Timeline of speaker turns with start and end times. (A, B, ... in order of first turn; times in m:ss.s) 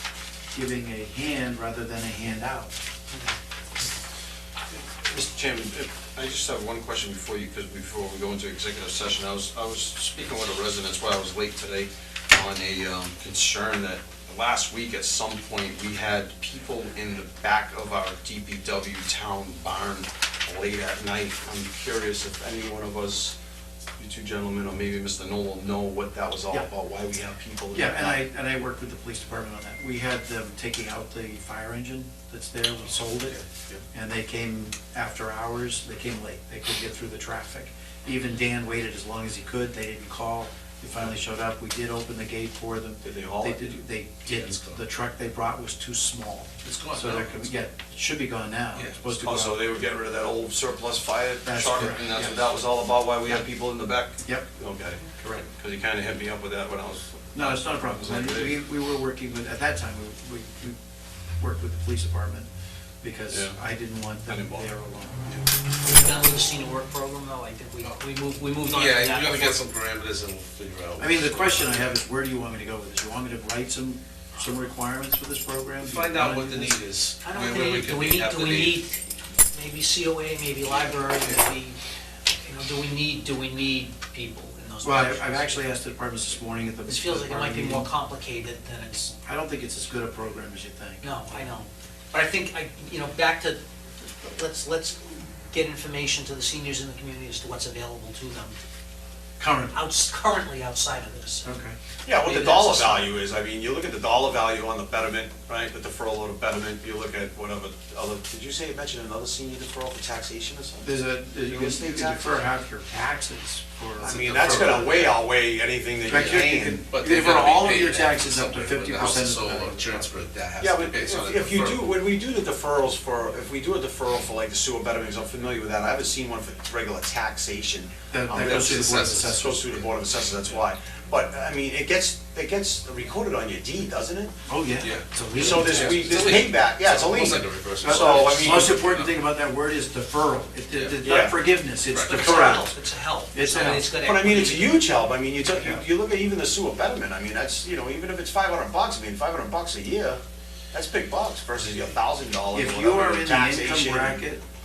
0:00.5-0:02.7 A
0:04.7-0:23.4 B
0:24.0-0:28.2 B
0:27.7-0:49.6 A
0:43.0-0:43.7 B
0:44.2-0:44.8 C
0:46.6-0:47.5 C
0:48.7-0:49.0 C
0:49.2-0:58.6 B
0:51.4-0:52.4 A
0:54.2-0:54.5 A
0:55.2-0:55.4 A
0:57.3-1:00.8 A
1:01.4-1:02.5 A
1:03.0-1:05.5 A
1:03.3-1:03.6 B
1:04.3-1:04.7 B
1:05.8-1:09.6 D
1:08.6-1:11.9 C
1:11.0-1:16.8 A
1:15.8-1:18.8 C
1:17.2-1:21.8 D
1:22.4-1:25.6 D
1:24.8-1:27.9 A
1:26.8-1:29.1 D
1:29.2-1:31.5 A
1:31.0-1:38.6 D
1:39.4-1:39.8 A
1:39.7-1:41.5 D
1:41.4-1:41.8 A
1:42.0-1:52.4 B
1:42.2-1:43.1 D
1:50.8-1:55.1 A
1:54.0-1:55.2 C
1:54.0-1:57.8 B
1:56.1-2:00.1 A
1:56.1-2:01.9 C
2:00.6-2:14.3 B
2:08.1-2:09.8 A
2:08.5-2:10.5 C
2:14.5-2:16.4 A
2:14.8-2:19.1 C
2:15.4-2:18.8 B
2:17.8-2:22.7 A
2:20.7-2:21.2 C
2:21.0-2:21.4 B
2:21.8-2:22.3 C
2:21.9-2:24.8 D
2:22.1-2:22.6 B
2:23.3-2:23.9 A
2:23.9-2:30.2 B
2:25.5-2:25.8 A
2:30.7-2:34.2 B
2:32.5-2:34.4 A